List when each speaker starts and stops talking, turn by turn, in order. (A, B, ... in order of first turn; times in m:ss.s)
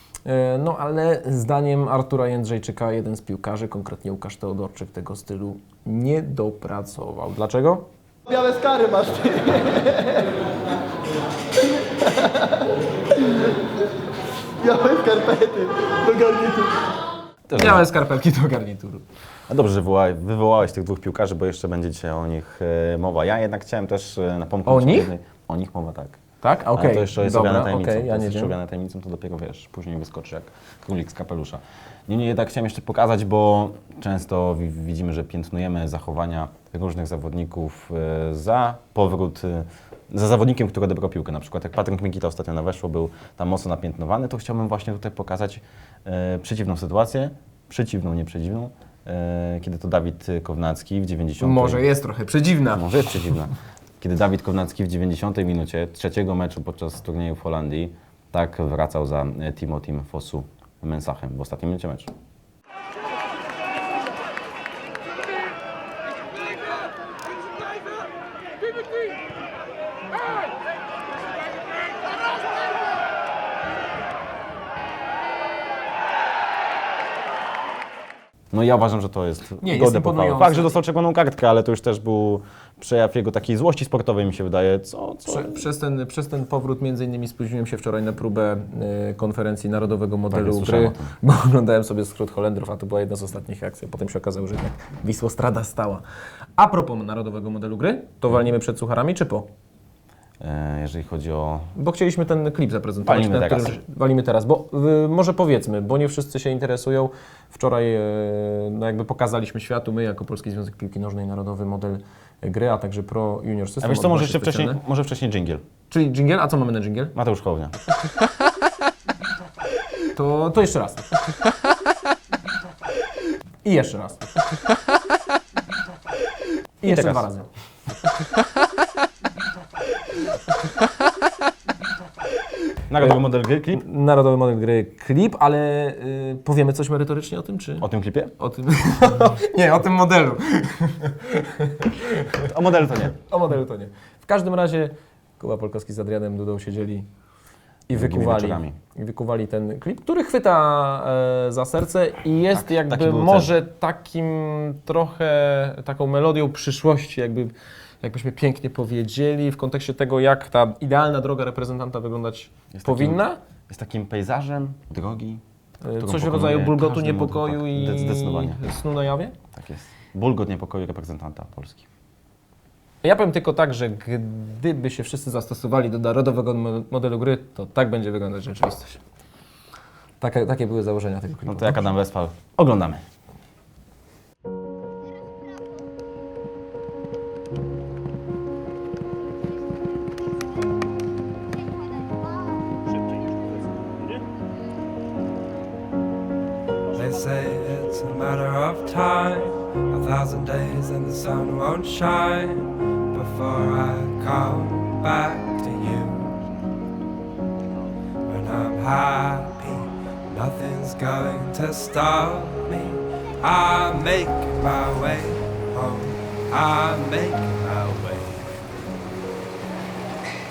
0:00.2-0:07.9 A
0:08.3-0:10.2 B
0:14.6-0:16.8 B
0:17.5-0:17.8 C
0:17.5-0:19.0 A
0:19.5-0:26.2 C
0:24.7-0:25.1 A
0:26.4-0:28.6 A
0:26.8-0:51.9 C
0:51.4-0:53.2 A
0:52.7-1:02.1 C
1:18.5-1:25.6 C
1:19.6-1:20.8 A
1:25.3-1:36.0 A
1:30.3-1:31.1 C
1:36.6-1:39.5 A
1:40.4-1:41.7 C
1:41.8-1:54.8 A
1:43.0-1:43.8 C
1:53.8-1:55.6 C
1:55.9-1:57.2 A
1:57.2-1:57.8 C
2:00.1-2:01.2 A
2:03.6-2:04.3 A
2:06.8-2:07.5 A
2:06.8-2:07.3 C
2:12.9-2:13.8 C
2:13.7-2:17.9 A
2:17.8-2:18.3 C
2:18.4-2:22.5 A
2:22.4-2:23.2 C
2:23.2-2:27.1 A
2:27.9-2:43.4 A
2:27.9-2:28.8 C
2:32.5-2:33.5 C
2:42.7-2:45.4 C
2:45.8-2:49.4 A
2:46.0-2:48.6 C
2:49.5-2:51.9 C
2:53.0-2:59.0 A
3:00.2-3:01.9 A
3:01.5-3:03.0 C
3:16.9-3:26.4 D
3:28.3-3:38.5 D